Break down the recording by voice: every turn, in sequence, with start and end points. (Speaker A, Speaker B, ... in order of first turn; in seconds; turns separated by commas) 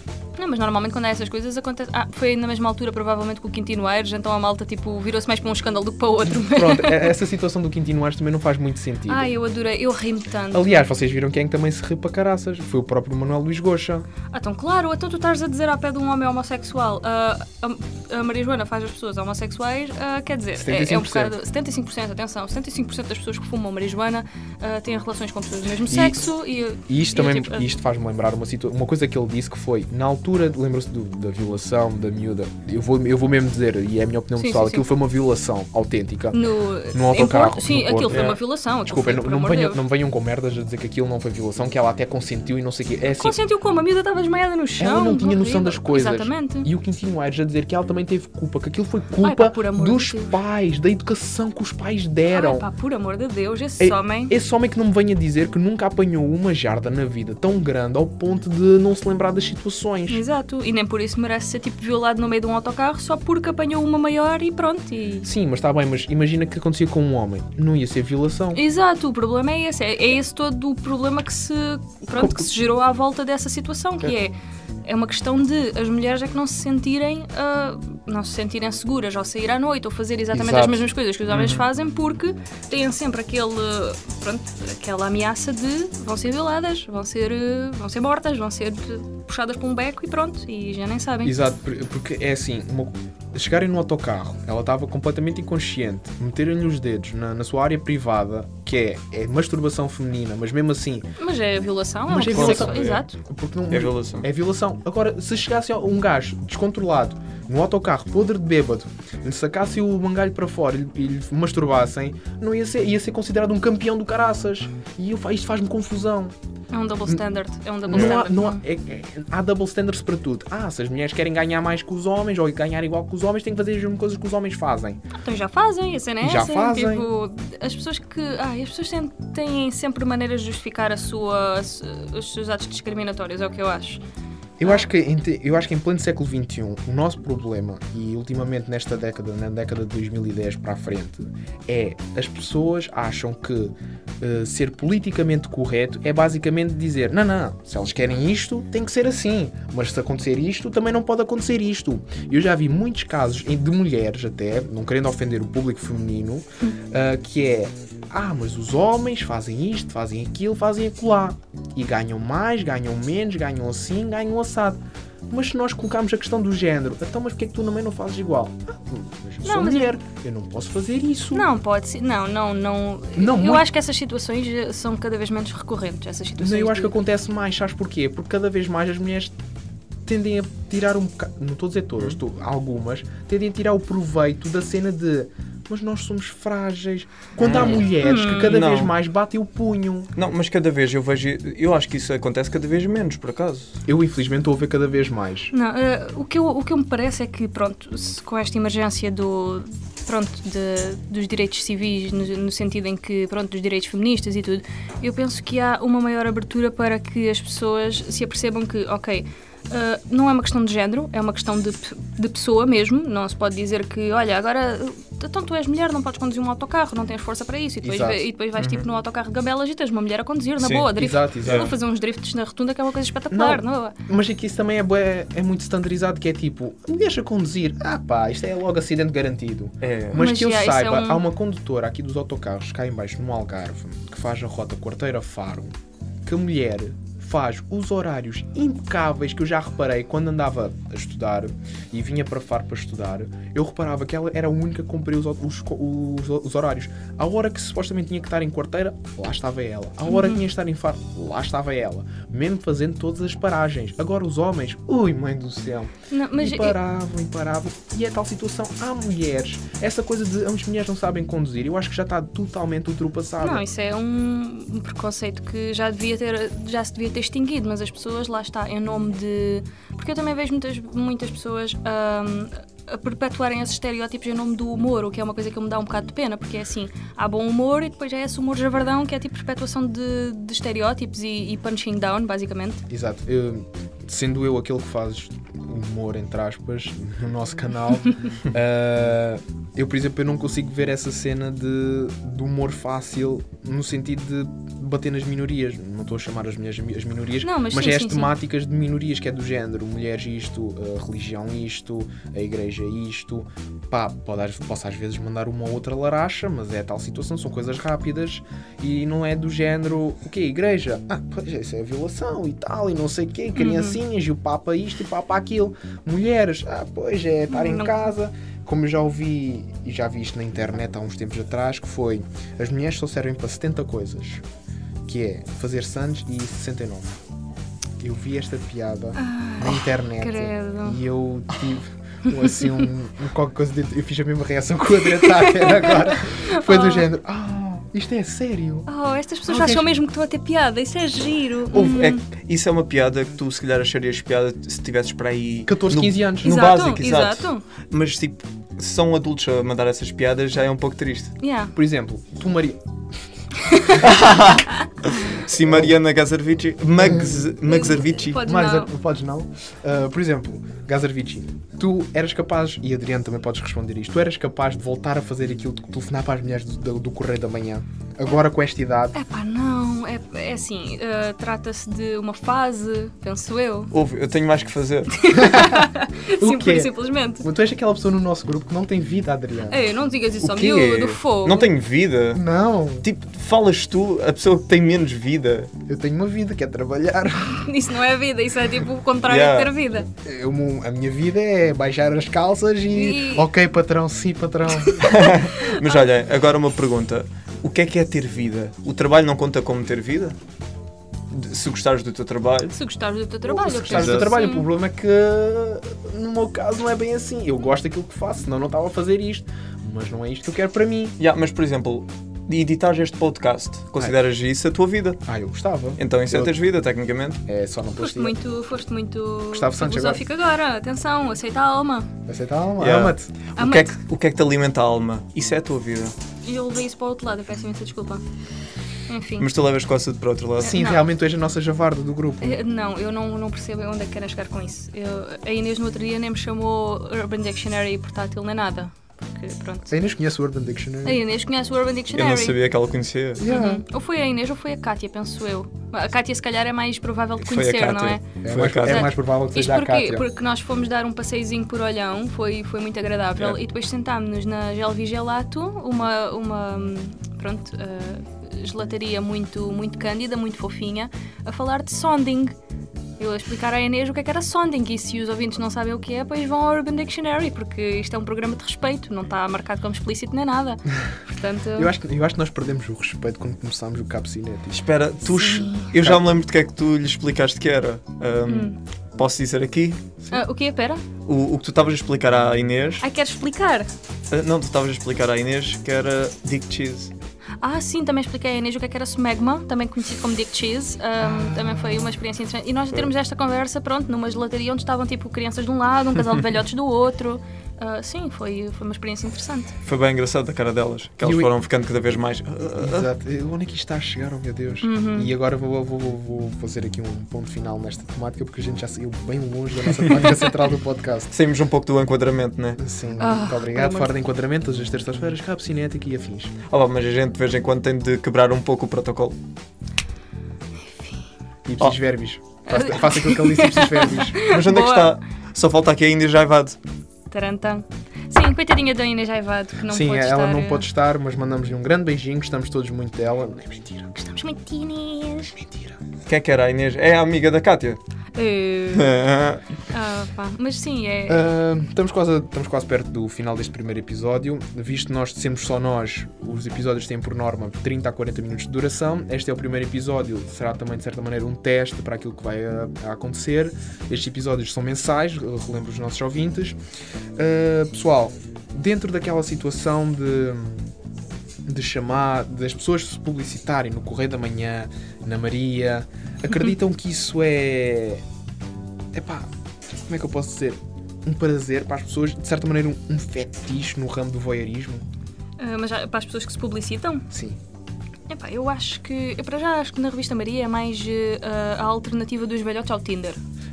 Speaker A: 0.4-7.2, Speaker B: 6.3-9.3, Speaker A: 9.1-10.8, Speaker B: 10.5-14.1, Speaker A: 14.3-27.7, Speaker B: 20.6-21.4, Speaker B: 25.9-26.2, Speaker B: 26.9-36.4, Speaker A: 34.4-34.9, Speaker A: 36.3-39.8, Speaker B: 36.9-38.2, Speaker C: 38.1-38.4, Speaker B: 38.9-43.4, Speaker A: 43.0-46.7, Speaker B: 44.8-52.6, Speaker A: 49.2-50.4, Speaker A: 52.3-54.3, Speaker B: 53.8-60.2, Speaker A: 60.1-65.3, Speaker B: 65.2-68.6, Speaker A: 68.5-74.3, Speaker B: 72.2-72.5, Speaker A: 74.8-91.3, Speaker B: 80.3-80.9, Speaker C: 81.3-81.6, Speaker B: 91.2-101.1, Speaker A: 101.2-103.2, Speaker B: 102.1-116.3, Speaker C: 102.3-103.0, Speaker C: 103.7-104.3, Speaker A: 116.7-118.6, Speaker B: 117.9-125.0, Speaker C: 117.9-118.2, Speaker A: 125.1-134.0, Speaker B: 126.2-127.1, Speaker B: 134.6-171.4, Speaker A: 169.4-169.9, Speaker A: 171.3-176.9, Speaker B: 173.1-173.7, Speaker B: 176.4-179.3, Speaker B: 180.1-190.1, Speaker C: 187.4-188.9, Speaker A: 188.0-188.7, Speaker C: 190.2-193.7, Speaker B: 193.8-195.5, Speaker A: 195.5-223.9, Speaker B: 217.8-218.2, Speaker C: 218.6-218.8, Speaker C: 220.6-220.9, Speaker B: 220.9-221.7, Speaker C: 221.4-221.7, Speaker B: 223.3-235.7, Speaker C: 229.8-230.2, Speaker A: 230.1-231.2, Speaker B: 236.2-263.6, Speaker A: 250.1-250.4, Speaker A: 256.1-256.8, Speaker A: 263.4-282.8, Speaker B: 282.9-324.4, Speaker A: 297.4-298.3, Speaker A: 313.6-314.0, Speaker A: 317.5-318.1, Speaker B: 325.1-327.2, Speaker B: 328.0-338.9, Speaker A: 329.2-331.0, Speaker A: 332.5-332.8, Speaker A: 335.1-337.1, Speaker A: 338.9-342.2, Speaker B: 339.5-339.9, Speaker C: 341.7-351.3, Speaker B: 345.7-346.6, Speaker A: 346.4-347.6, Speaker A: 351.4-351.7, Speaker B: 351.7-352.8, Speaker A: 353.6-354.0, Speaker C: 354.0-358.4, Speaker B: 355.6-355.9, Speaker B: 357.0-357.5, Speaker A: 357.6-358.9, Speaker B: 358.3-369.1, Speaker A: 369.1-373.9, Speaker C: 373.9-375.2, Speaker A: 375.1-377.5, Speaker B: 375.3-379.8, Speaker A: 379.7-381.7, Speaker C: 380.4-382.4, Speaker B: 382.3-383.0, Speaker C: 383.0-385.7, Speaker B: 385.8-387.6, Speaker A: 387.4-390.1, Speaker C: 389.2-389.7, Speaker B: 390.2-395.1, Speaker A: 392.9-393.5, Speaker A: 394.8-395.9, Speaker C: 395.0-400.4, Speaker C: 401.3-402.8, Speaker A: 402.7-404.7, Speaker B: 403.5-411.1, Speaker C: 403.9-404.3, Speaker C: 411.2-415.2, Speaker B: 415.2-416.5, Speaker C: 416.0-417.4, Speaker B: 417.4-418.3, Speaker A: 418.0-422.1, Speaker B: 419.5-420.2, Speaker B: 422.2-423.4, Speaker C: 422.8-426.1, Speaker A: 423.6-423.9, Speaker A: 426.4-428.2, Speaker A: 429.1-429.5, Speaker C: 429.4-430.8, Speaker A: 430.6-431.0, Speaker B: 430.6-432.6, Speaker A: 432.4-439.9, Speaker B: 439.9-441.2, Speaker A: 441.0-442.6, Speaker C: 442.1-443.4, Speaker B: 443.4-443.8, Speaker A: 443.4-462.5, Speaker C: 447.4-449.1, Speaker B: 448.4-450.2, Speaker A: 463.2-471.9, Speaker B: 471.8-474.8, Speaker C: 474.7-480.0, Speaker A: 475.3-475.9, Speaker A: 478.5-478.8, Speaker A: 480.3-481.0, Speaker C: 481.2-483.1, Speaker A: 483.0-483.9, Speaker C: 484.3-487.1, Speaker A: 487.6-499.7, Speaker B: 491.3-492.1, Speaker C: 499.8-503.1, Speaker B: 501.2-501.5, Speaker B: 502.8-511.3, Speaker A: 504.8-505.3, Speaker C: 511.3-512.8, Speaker B: 512.8-516.5, Speaker A: 513.2-514.1, Speaker C: 516.7-519.4, Speaker A: 520.8-521.2, Speaker B: 521.6-524.4, Speaker A: 522.7-525.2, Speaker C: 524.4-526.8, Speaker A: 527.3-530.9, Speaker B: 529.9-534.2, Speaker A: 534.2-535.5, Speaker B: 535.5-536.0, Speaker C: 536.2-538.0, Speaker A: 538.3-539.2, Speaker C: 538.9-539.6, Speaker A: 539.9-541.4, Speaker B: 541.3-556.8, Speaker B: 557.4-560.9, Speaker B: 561.6-568.2, Speaker B: 569.1-575.0, Speaker A: 575.6-577.3, Speaker B: 577.3-577.6, Speaker A: 578.3-583.4